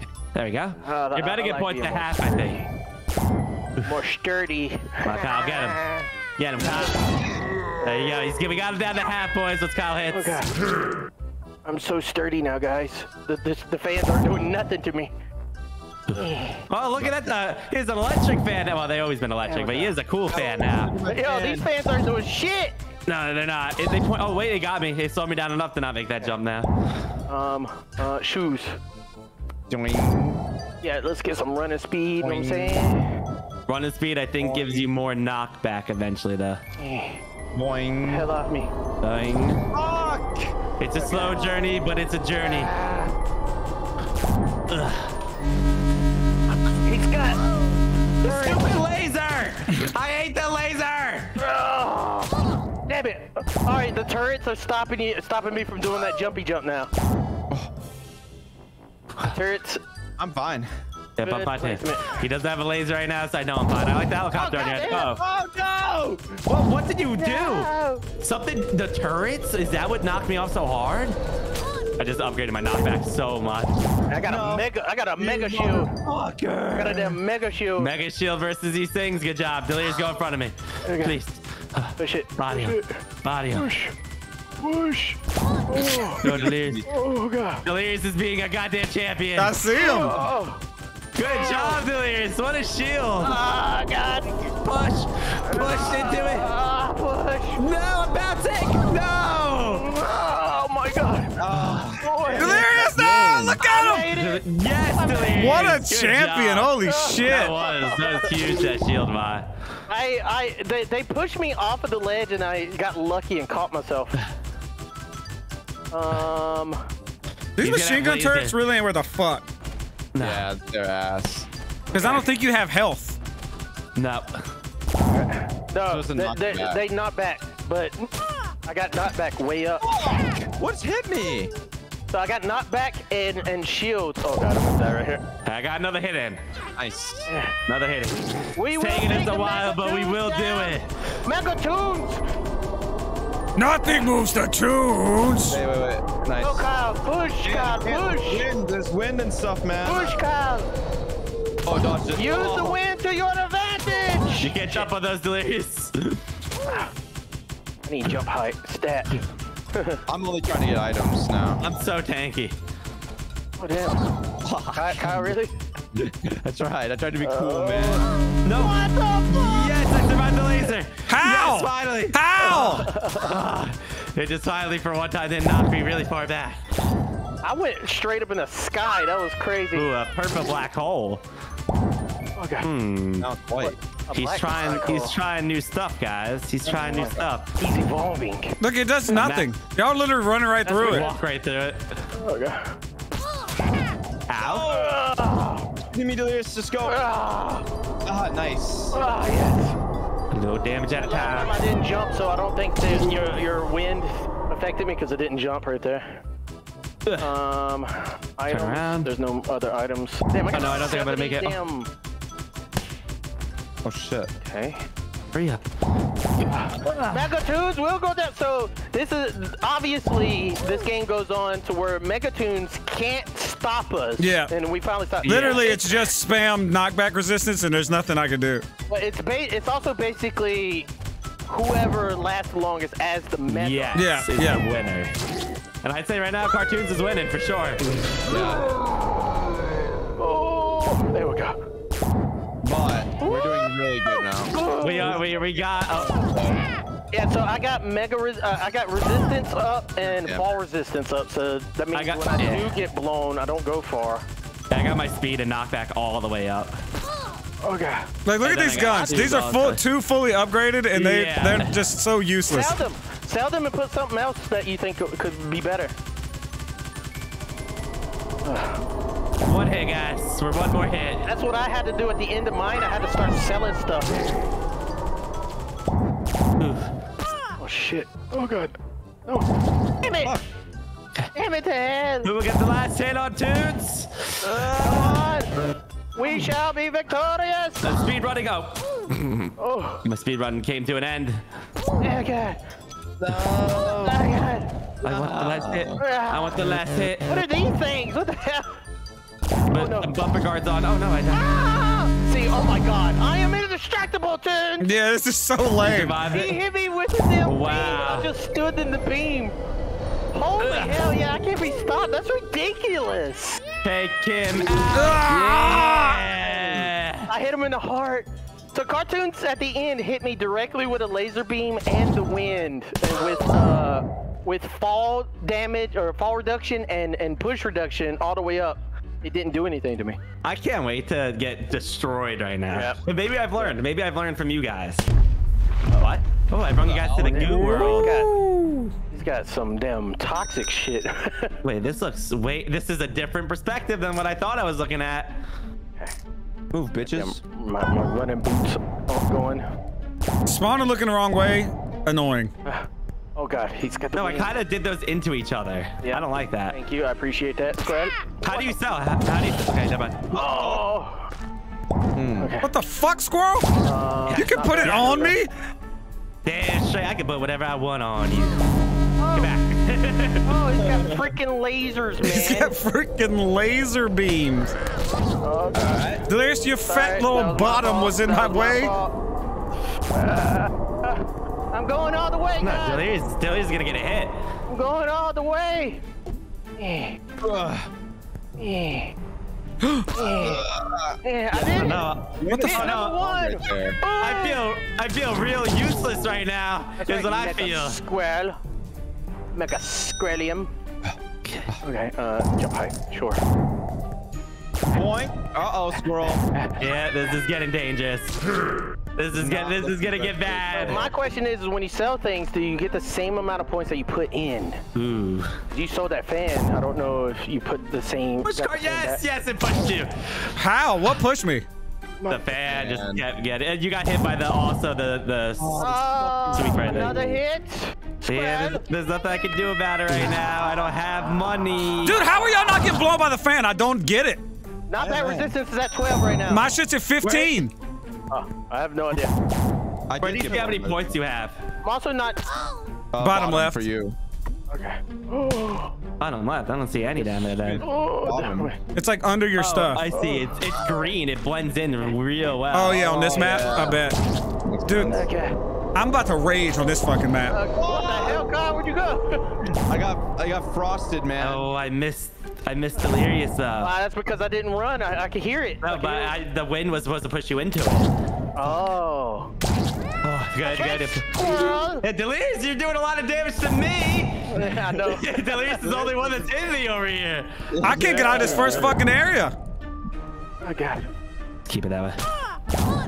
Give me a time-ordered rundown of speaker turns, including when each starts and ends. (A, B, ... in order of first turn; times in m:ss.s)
0:00.4-0:02.6 A
0:00.8-0:02.7 B
0:03.8-0:06.1 B
0:05.0-0:07.2 A
0:07.8-0:10.5 A
0:10.1-0:10.5 B
0:11.6-0:15.1 B
0:16.1-0:16.6 B
0:16.7-0:20.9 A
0:19.5-0:19.9 B
0:20.3-0:21.7 C
0:21.1-0:22.8 B
0:23.1-0:26.7 A
0:27.3-0:28.8 B
0:29.7-0:30.5 C
0:30.8-0:33.1 B
0:32.2-0:33.0 C
0:33.7-0:36.6 A
0:34.4-0:34.9 C
0:36.8-0:37.2 B
0:37.5-0:38.3 C
0:38.1-0:38.7 B
0:39.0-0:39.6 A
0:39.7-0:40.6 C
0:40.8-0:42.7 A
0:41.0-0:41.6 B
0:42.4-0:43.1 B
0:44.7-0:45.1 A
0:46.7-0:47.4 B
0:48.2-0:51.3 A
0:48.2-0:48.7 B
0:51.4-0:56.9 B
0:59.2-0:59.8 B
1:00.2-1:00.7 C
1:01.2-1:05.2 A
1:01.2-1:02.2 B
1:04.3-1:05.1 B
1:04.9-1:06.4 C
1:06.4-1:11.2 A
1:07.2-1:08.0 B
1:12.0-1:13.8 A
1:14.1-1:15.9 B
1:14.2-1:16.8 C
1:16.1-1:17.2 A
1:16.8-1:17.9 B
1:17.8-1:23.7 A
1:20.8-1:21.2 B
1:22.0-1:23.0 B
1:23.6-1:23.9 B
1:24.6-1:25.2 B
1:25.7-1:26.2 B
1:26.0-1:26.9 A
1:26.2-1:26.9 C
1:26.9-1:27.6 B
1:27.6-1:29.6 A
1:29.4-1:30.2 D
1:29.7-1:30.6 B
1:31.2-1:33.4 A
1:31.2-1:31.8 B
1:33.2-1:34.5 B
1:34.6-1:36.5 A
1:35.4-1:37.6 B
1:37.6-1:39.8 A
1:39.7-1:41.4 B
1:41.4-1:43.6 C
1:41.5-1:41.9 A
1:42.0-1:42.7 B
1:42.4-1:44.1 D
1:43.6-1:44.4 B
1:44.1-1:49.5 A
1:45.0-1:45.8 B
1:45.4-1:47.5 D
1:46.8-1:48.3 B
1:49.9-1:54.1 B
1:55.9-1:56.8 B
1:57.6-1:59.4 D
1:57.6-1:58.6 A
2:00.1-2:00.4 A
2:00.2-2:01.5 C
2:01.9-2:03.2 D
2:01.9-2:02.2 B
2:04.0-2:04.4 A
2:05.1-2:08.1 B
2:05.9-2:06.8 C
2:08.7-2:09.8 B
2:09.8-2:11.5 C
2:12.1-2:15.2 B
2:15.4-2:16.4 A
2:16.8-2:17.3 C
2:17.3-2:17.5 B
2:17.7-2:20.9 A
2:18.6-2:22.2 B
2:23.6-2:25.6 D
2:25.5-2:26.7 C
2:26.4-2:28.5 B
2:27.4-2:30.2 C
2:29.8-2:30.7 B
2:31.6-2:32.8 C
2:32.1-2:34.9 B
2:34.4-2:36.2 A
2:36.6-2:36.9 B
2:37.9-2:39.2 B
2:39.7-2:40.0 B
2:40.1-2:41.6 C
2:41.6-2:42.5 A
2:43.6-2:44.0 B
2:44.4-2:45.2 A
2:44.7-2:45.5 B
2:46.2-2:48.1 C
2:47.2-2:49.8 B
2:48.4-2:56.6 A
2:51.1-2:52.9 D
2:52.4-2:53.3 B
2:57.4-2:59.8 B
2:59.7-3:01.2 A
3:02.4-3:02.7 B
3:02.6-3:03.3 A
3:03.2-3:03.8 C
3:03.6-3:05.2 B
3:04.1-3:07.5 A
3:06.6-3:07.2 C
3:07.6-3:08.6 B
3:08.6-3:11.1 D
3:09.1-3:09.6 A
3:10.6-3:11.9 A
3:10.8-3:11.2 B
3:12.2-3:12.7 B
3:14.3-3:14.7 A
3:14.4-3:15.0 C
3:14.6-3:15.7 B
3:15.9-3:17.0 C
3:16.8-3:17.6 B
3:18.0-3:19.0 C
3:18.9-3:19.8 B
3:20.3-3:21.5 A
3:20.9-3:26.2 B
3:27.2-3:31.9 B
3:28.5-3:29.1 A
3:30.5-3:31.6 A
3:33.8-3:34.3 C
3:34.4-3:34.8 B
3:35.3-3:35.6 A
3:36.5-3:46.0 B
3:36.8-3:37.3 A
3:44.2-3:44.5 D
3:45.2-3:45.8 A
3:45.2-3:48.6 D
3:48.9-3:50.9 B
3:51.5-3:54.0 B
3:53.5-3:55.1 A
3:53.9-3:54.6 D
3:55.8-3:57.8 A
3:58.2-3:58.7 C
4:00.2-4:01.6 B
4:02.6-4:05.4 C
4:03.2-4:05.2 B
4:04.8-4:06.3 A
4:06.1-4:06.6 C
4:07.1-4:14.2 B
4:10.0-4:10.4 C
4:11.9-4:12.7 A
4:14.7-4:16.8 A
4:17.6-4:18.1 B
4:18.3-4:22.8 D
4:18.4-4:19.8 A
4:18.8-4:19.2 B
4:20.9-4:21.8 A
4:22.5-4:25.9 B
4:28.4-4:28.8 B
4:29.4-4:31.2 A
4:31.3-4:34.4 B
4:36.6-4:36.9 A
4:37.6-4:38.8 B
4:40.0-4:40.3 B
4:41.3-4:42.3 B
4:42.2-4:44.6 A
4:44.4-4:45.5 B
4:44.6-4:45.7 C
4:46.2-4:47.9 B
4:47.8-4:49.5 A
4:49.6-4:50.0 B
4:50.0-4:51.4 A
4:52.0-4:52.6 B
4:53.2-4:54.2 C
4:53.7-4:54.7 B
4:55.0-4:57.3 A
4:55.0-4:56.0 C
4:56.0-4:56.7 B
4:57.3-4:58.7 B
4:59.7-5:01.6 A
4:59.7-5:00.1 B
5:01.3-5:04.9 B
5:04.8-5:06.2 D
5:05.8-5:06.5 A
5:06.3-5:09.6 B
5:07.4-5:08.3 A
5:10.3-5:13.6 B
5:10.6-5:11.1 A
5:13.8-5:17.3 A
5:14.9-5:16.3 D
5:17.3-5:30.2 B
5:30.4-5:35.0 A
5:32.7-5:33.0 B
5:35.9-5:38.2 A
5:36.8-5:37.7 C
5:37.2-5:38.3 B
5:37.6-5:38.9 D
5:39.1-5:41.5 B
5:41.6-5:45.4 A
5:46.7-5:47.4 C
5:47.1-5:49.7 B
5:50.5-5:52.5 D
5:52.6-5:54.5 B
5:54.2-5:56.8 A
5:56.0-5:58.8 B
5:58.4-6:00.4 A
6:00.3-6:00.9 C
6:00.3-6:01.3 B
6:02.2-6:02.6 C
6:02.4-6:02.7 B
6:02.6-6:03.8 D
6:03.8-6:05.4 B
6:04.3-6:05.3 A
6:04.3-6:05.5 D
6:06.4-6:08.6 A
6:09.2-6:09.5 B
6:09.4-6:10.6 A
6:10.4-6:12.8 B
6:10.8-6:11.3 C
6:12.2-6:14.8 D
6:15.4-6:16.3 B
6:15.7-6:16.2 C
6:16.3-6:18.9 D
6:16.8-6:19.1 B
6:20.1-6:23.1 B
6:22.6-6:24.4 A
6:24.7-6:26.0 B
6:26.8-6:27.2 B
6:27.4-6:27.9 C
6:28.6-6:29.2 B
6:30.1-6:30.7 B
6:30.2-6:34.0 C
6:31.2-6:32.1 B
6:31.8-6:33.2 A
6:32.6-6:34.6 B
6:34.2-6:38.0 A
6:37.0-6:38.6 B
6:39.6-6:40.7 B
6:41.4-6:41.7 A
6:41.8-6:43.4 B
6:44.9-6:46.5 C
6:46.8-6:48.4 A
6:49.2-6:51.0 A
6:49.4-6:51.2 C
6:50.8-6:54.8 B
6:55.0-6:55.6 A
6:55.7-6:59.2 B
6:58.4-7:00.5 A
7:00.6-7:01.7 D
7:02.3-7:06.0 A
7:02.6-7:03.2 C
7:05.6-7:07.4 C
7:05.8-7:08.8 B
7:06.5-7:07.2 A
7:08.3-7:12.2 A
7:12.0-7:14.4 D
7:14.9-7:16.7 B
7:15.0-7:15.6 C
7:16.5-7:17.7 D
7:18.3-7:19.3 B
7:20.1-7:21.1 C
7:20.2-7:21.6 A
7:21.8-7:22.4 B
7:23.1-7:24.2 C
7:23.2-7:23.8 D
7:24.7-7:25.9 B
7:26.2-7:27.8 A
7:27.2-7:28.7 C
7:27.8-7:28.8 B
7:29.0-7:30.0 D
7:29.6-7:33.1 A
7:30.1-7:30.5 B
7:32.7-7:34.2 D
7:33.0-7:34.0 C
7:34.6-7:35.3 C
7:34.9-7:35.2 D
7:35.0-7:35.6 B
7:36.0-7:37.6 D
7:37.5-7:39.6 B
7:37.8-7:38.5 C
7:39.9-7:41.6 C
7:41.4-7:43.9 A
7:43.8-7:46.3 B
7:45.8-7:48.2 A
7:48.6-7:49.5 B
7:50.2-7:57.5 A
7:50.6-7:52.0 B
7:54.5-7:56.4 B
7:57.7-7:59.0 C
7:57.8-7:59.6 D
7:58.3-7:58.9 B
8:00.6-8:01.1 B
8:01.7-8:02.2 A